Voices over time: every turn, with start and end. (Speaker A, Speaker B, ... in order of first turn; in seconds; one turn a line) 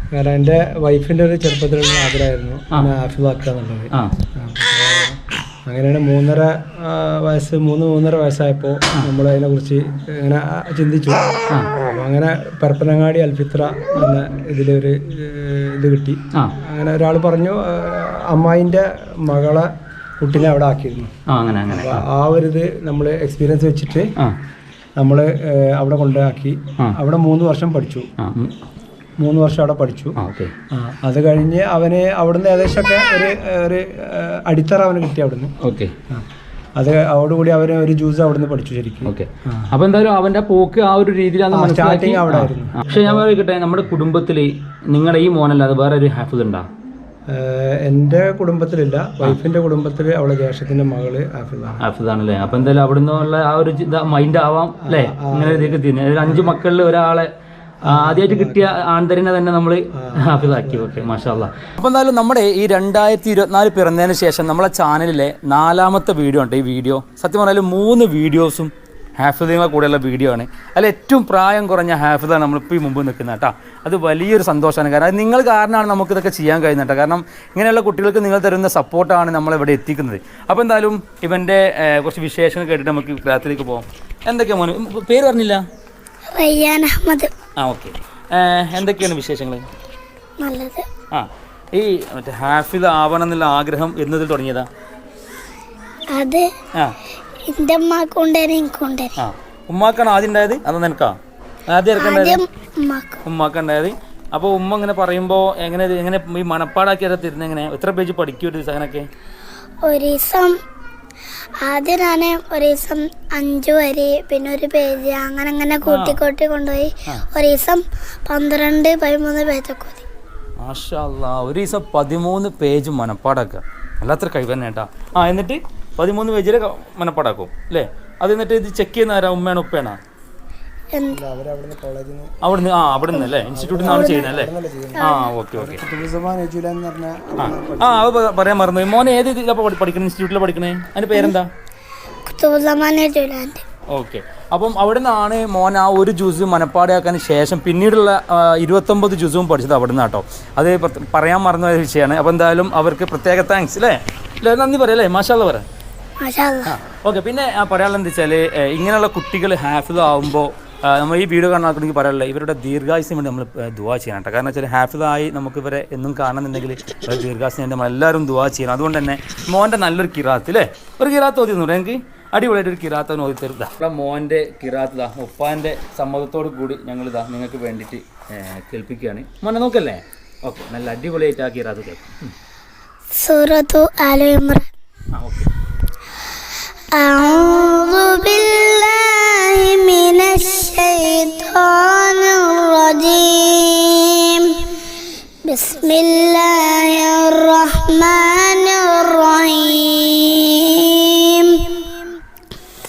Speaker A: 0.1-19.7
Speaker A: 20.2-21.1
Speaker B: 21.3-22.0
Speaker A: 21.7-24.1
Speaker A: 25.0-28.1
Speaker B: 28.2-28.5
Speaker A: 29.2-30.2
Speaker B: 30.2-30.5
Speaker A: 30.7-35.5
Speaker B: 35.6-35.9
Speaker A: 36.8-39.7
Speaker B: 39.1-46.7
Speaker A: 41.5-43.3
Speaker A: 47.3-51.8
Speaker B: 51.8-57.3
Speaker A: 54.9-56.6
Speaker A: 57.8-58.7
Speaker B: 57.9-85.6
Speaker A: 60.0-61.0
Speaker C: 86.3-87.3
Speaker B: 87.6-89.7
Speaker C: 90.4-90.9
Speaker B: 91.1-94.7
Speaker C: 96.1-96.5
Speaker C: 97.5-99.2
Speaker B: 99.2-101.2
Speaker B: 101.7-102.4
Speaker C: 102.0-103.2
Speaker B: 103.2-109.1
Speaker C: 109.8-110.5
Speaker C: 111.6-120.0
Speaker B: 115.8-116.2
Speaker B: 120.6-130.0
Speaker C: 130.9-131.2
Speaker A: 131.1-132.3
Speaker B: 132.4-135.8
Speaker A: 133.5-138.2
Speaker C: 133.9-134.2
Speaker B: 137.4-141.5
Speaker C: 142.3-143.6
Speaker B: 143.9-155.7
Speaker C: 156.2-156.8
Speaker B: 156.7-182.3
Speaker C: 183.2-184.7
Speaker B: 185.2-185.5
Speaker C: 186.9-194.8
Speaker C: 195.4-202.1